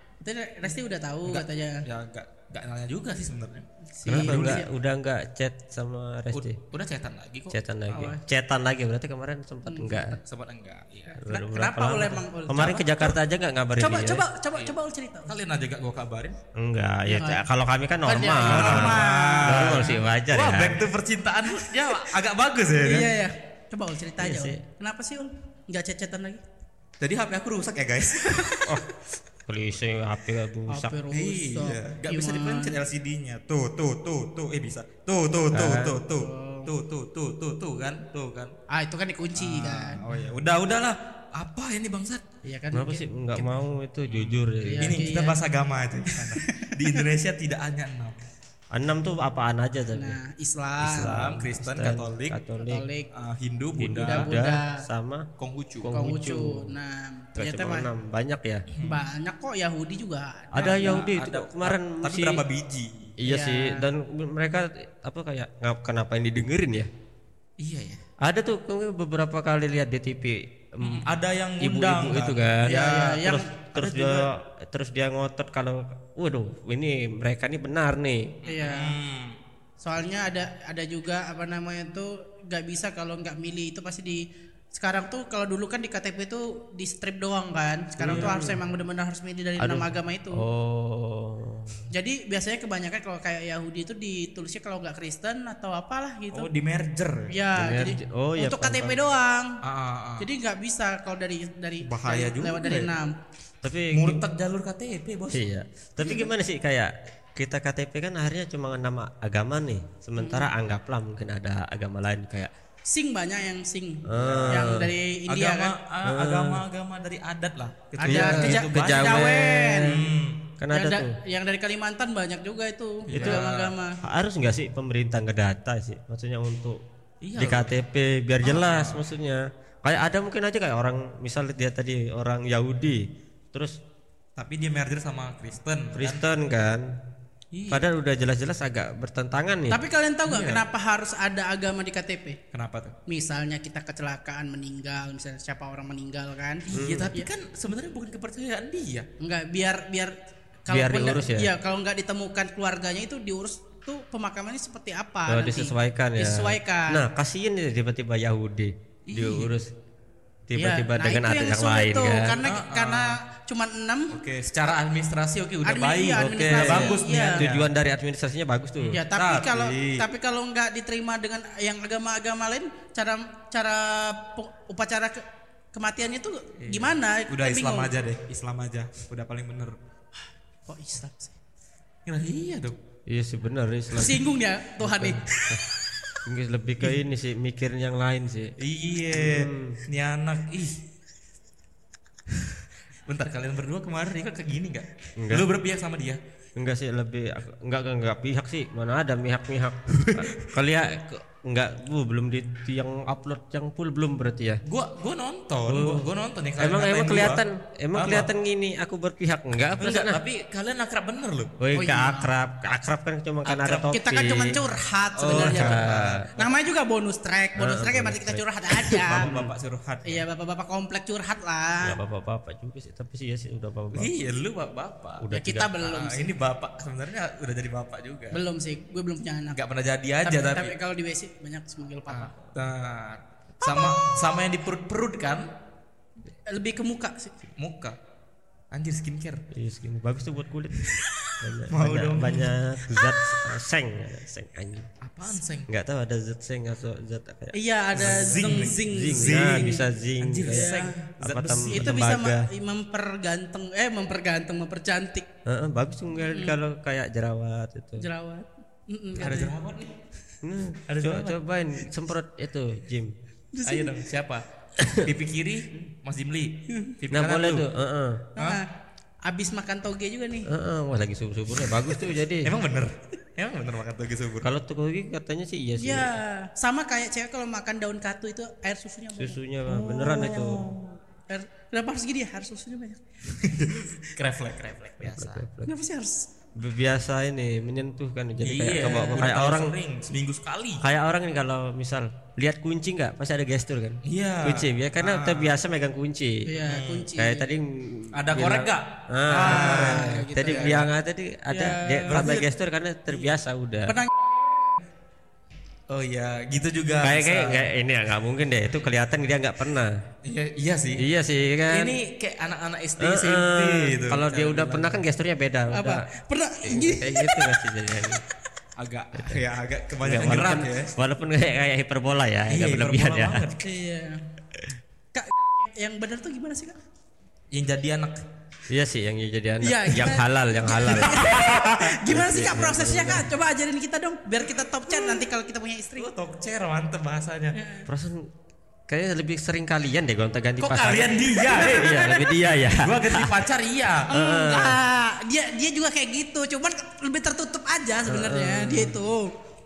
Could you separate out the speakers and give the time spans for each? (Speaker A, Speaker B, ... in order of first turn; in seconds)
Speaker A: 0.2-1.8, 4.0-4.7, 9.7-10.1, 11.3-13.1, 13.8-15.3, 17.1-17.4, 18.1-20.0, 21.6-22.0, 22.8-26.4, 30.7-32.8, 36.1-36.7, 38.7-40.0, 42.4-43.1, 44.6-45.4, 46.1-46.7, 49.9-51.1, 52.7-53.1, 54.0-54.8, 55.9-57.9, 58.8-61.0, 63.2-63.9, 72.6-73.5, 78.5-79.0, 79.8-90.4, 91.9-96.5, 97.3-99.5, 100.2-103.1, 110.2-110.5, 112.9-115.7, 118.0-120.0, 120.7-124.0, 139.7-142.4, 143.1-147.3, 149.2-150.1, 150.7-157.0, 160.6-164.1, 165.6-167.4, 168.9-177.9, 180.7-181.4, 183.9-185.2, 211.7-212.3, 213.8-219.3, 220.0-222.0, 225.3-226.3, 228.3-229.6, 230.2-232.3, 233.7-233.9, 236.5-237.3, 247.5-249.8, 250.5-251.0, 251.7-255.2, 256.3-256.6, 258.0-259.5, 263.5-263.9, 268.4-268.7, 269.2-270.5, 275.8-279.4, 281.3-283.0, 285.6-286.2, 288.8-289.2, 296.4-297.5, 299.3-300.8, 301.5-302.4, 303.9-304.3, 315.7-317.4, 323.6-324.2, 325.1-326.8, 329.6-336.1, 337.6-337.9, 344.1-349.3
Speaker B: 1.2-4.6, 6.3-8.1, 10.2-11.2, 15.3-16.4, 18.4-23.1, 27.0-28.8, 31.1-38.5, 39.4-42.2, 44.1-48.2, 50.9-52.4, 53.1-54.3, 55.4-55.9, 58.7-59.0, 60.5-63.1, 67.6-68.0, 70.8-73.1, 73.8-74.2, 78.4-79.3, 88.0-88.3, 96.3-97.3, 99.6-100.3, 101.8-102.9, 103.9-105.4, 114.1-114.7, 115.3-120.4, 123.1-123.7, 127.2-127.8, 128.4-129.0, 134.4-136.2, 137.5-137.8, 140.2-140.6, 142.5-142.9, 146.7-149.1, 159.1-159.5, 162.4-163.2, 164.1-167.7, 168.8-170.1, 176.6-179.8, 182.1-182.8, 188.6-190.8, 192.3-196.2, 200.0-200.4, 204.7-207.4, 207.9-208.3, 209.8-211.5, 213.5-213.8, 215.2-216.3, 219.1-220.2, 223.9-225.2, 225.8-228.4, 229.5-230.8, 232.1-235.5, 237.6-238.0, 238.7-239.4, 241.7-242.5, 245.0-245.7, 248.0-251.9, 259.1-259.9, 260.9-261.4, 263.6-264.4, 265.0-267.6, 272.4-274.5, 279.7-281.0, 283.3-285.4, 288.4-290.8, 294.0-295.5, 296.6-297.1, 298.1-300.9, 302.1-302.4, 305.9-307.7, 310.2-311.0, 311.7-315.0, 318.8-320.9, 322.5-323.6, 327.5-328.2, 330.9-331.6, 336.0-337.6, 340.6-344.1
Speaker C: 4.0-6.6, 7.5-10.2, 11.2-14.2, 16.5-20.8, 24.2-24.6, 29.4-30.9, 35.5-36.0, 42.7-45.1, 48.7-50.2, 50.8-52.9, 53.8-55.3, 55.8-56.7, 57.4-58.6, 60.5-62.4, 63.2-66.9, 68.2-71.1, 71.6-78.4, 88.0-88.6, 89.6-91.9, 97.5-99.0, 103.6-104.2, 105.3-112.5, 114.0-114.9, 116.0-116.6, 118.0-121.1, 123.1-123.5, 124.0-126.8, 127.4-133.8, 135.9-137.0, 137.7-139.8, 146.7-147.1, 150.7-151.5, 155.3-159.7, 160.5-162.4, 166.2-169.0, 183.1-184.2, 184.8-185.6, 186.2-188.5, 189.1-189.8, 195.2-195.5, 196.6-204.6, 205.7-210.2, 211.6-214.6, 215.3-216.3, 217.6-219.5, 221.8-224.1, 225.2-225.7, 239.5-244.9, 245.7-252.5, 255.4-258.1, 260.4-263.1, 264.8-265.1, 267.1-268.3, 270.5-272.6, 274.4-276.2, 279.2-280.7, 285.0-285.7, 286.6-289.8, 290.8-296.5, 297.1-304.0, 307.0-310.0, 311.0-312.0, 313.0-316.1, 316.6-318.2, 320.0-323.4, 328.7-333.3, 337.9-338.3, 338.9-343.4, 344.1-344.8, 348.1-349.0